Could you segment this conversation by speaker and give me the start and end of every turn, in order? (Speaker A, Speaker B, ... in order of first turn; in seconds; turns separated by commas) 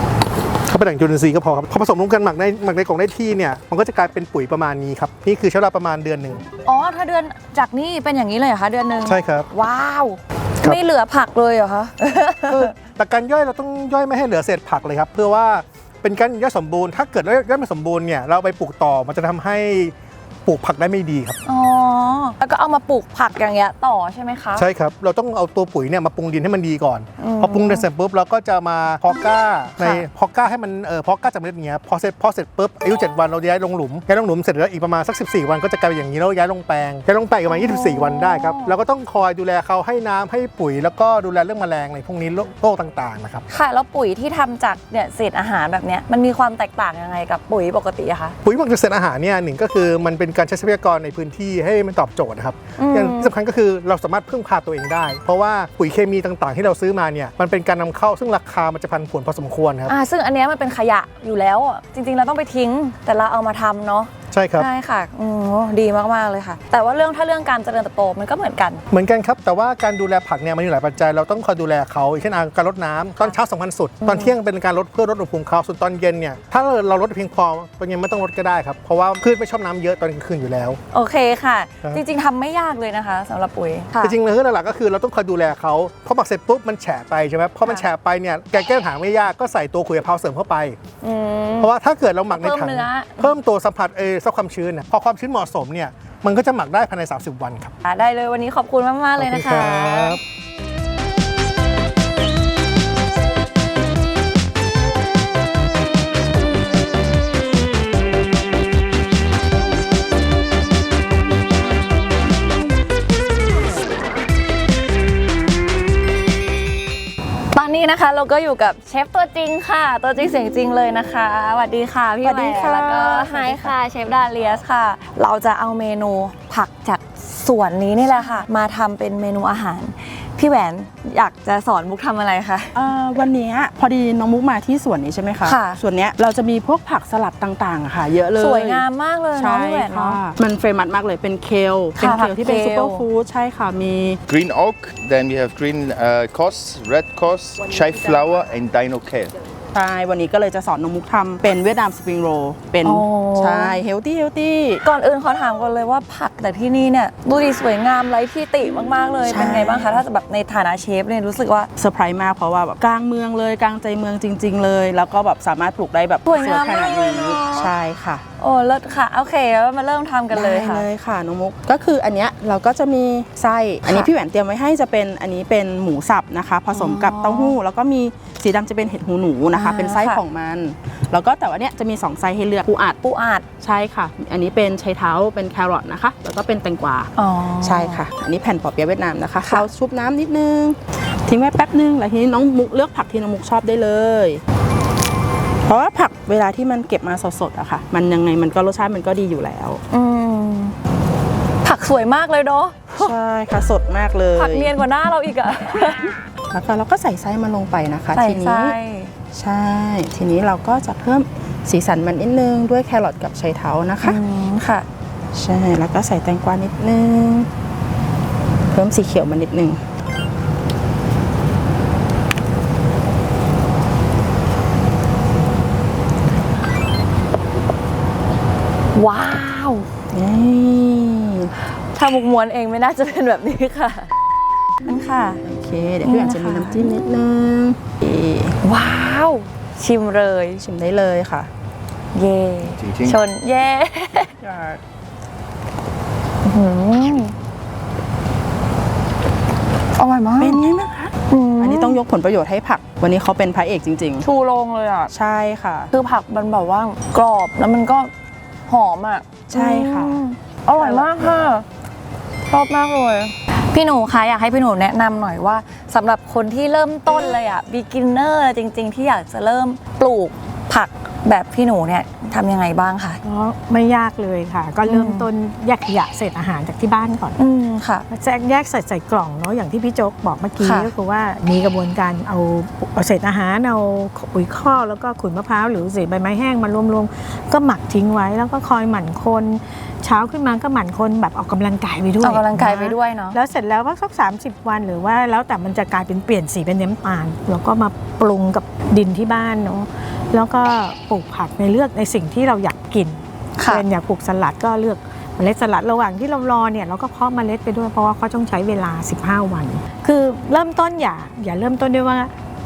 Speaker A: 0.7-6.4, Speaker B: 6.6-12.7, Speaker A: 9.0-9.5, Speaker A: 12.5-21.4, Speaker B: 21.4-24.7, Speaker A: 24.6-43.4, Speaker B: 27.2-27.9, Speaker B: 29.8-30.1, Speaker B: 37.5-38.8, Speaker B: 43.5-48.4, Speaker A: 48.4-59.9, Speaker B: 52.8-53.3, Speaker B: 59.9-68.8, Speaker A: 64.3-64.7, Speaker A: 68.9-80.8, Speaker B: 74.1-74.3, Speaker B: 80.9-84.2, Speaker A: 84.0-90.8, Speaker B: 91.0-91.7, Speaker A: 91.6-97.7, Speaker B: 92.3-93.3, Speaker B: 97.8-100.2, Speaker A: 99.2-100.2, Speaker B: 117.5-132.8, Speaker C: 122.2-123.7, Speaker C: 132.7-144.2, Speaker B: 135.4-135.8, Speaker B: 138.4-140.2, Speaker B: 142.0-143.1, Speaker D: 144.3-149.4, Speaker C: 149.7-154.8, Speaker B: 152.8-153.8, Speaker B: 154.8-161.7, Speaker C: 159.2-160.0, Speaker C: 161.8-168.2, Speaker B: 166.2-167.7, Speaker B: 168.4-170.9, Speaker C: 170.3-183.0, Speaker B: 173.8-174.1, Speaker B: 176.7-177.5, Speaker B: 179.5-180.2, Speaker B: 183.0-183.4, Speaker C: 183.6-194.4, Speaker B: 187.2-188.0, Speaker B: 189.4-189.7, Speaker C: 195.6-199.8, Speaker B: 199.9-200.8, Speaker B: 201.6-203.1, Speaker C: 203.0-204.8, Speaker B: 204.3-206.2, Speaker C: 206.5-208.7, Speaker B: 208.1-209.1, Speaker C: 209.3-214.2, Speaker B: 214.0-214.8, Speaker C: 215.3-217.5, Speaker C: 218.7-219.8, Speaker B: 228.9-229.9, Speaker C: 230.1-231.5, Speaker B: 231.9-234.1, Speaker B: 234.8-235.4, Speaker C: 235.4-238.6, Speaker B: 236.0-236.9, Speaker B: 238.6-240.6, Speaker C: 240.6-241.5, Speaker B: 242.1-244.3, Speaker D: 242.8-243.2, Speaker C: 244.4-244.8, Speaker B: 246.4-247.3, Speaker B: 249.9-250.6, Speaker C: 250.4-254.2, Speaker B: 251.3-252.0, Speaker B: 254.2-255.1, Speaker C: 255.1-255.9, Speaker B: 255.9-258.1, Speaker B: 258.7-261.6, Speaker C: 259.5-260.2, Speaker C: 260.8-261.1, Speaker B: 262.5-273.2, Speaker E: 273.2-277.4, Speaker B: 274.9-275.3, Speaker B: 277.4-278.1, Speaker E: 278.1-312.3, Speaker B: 280.6-280.9, Speaker B: 292.2-293.4, Speaker B: 303.6-303.8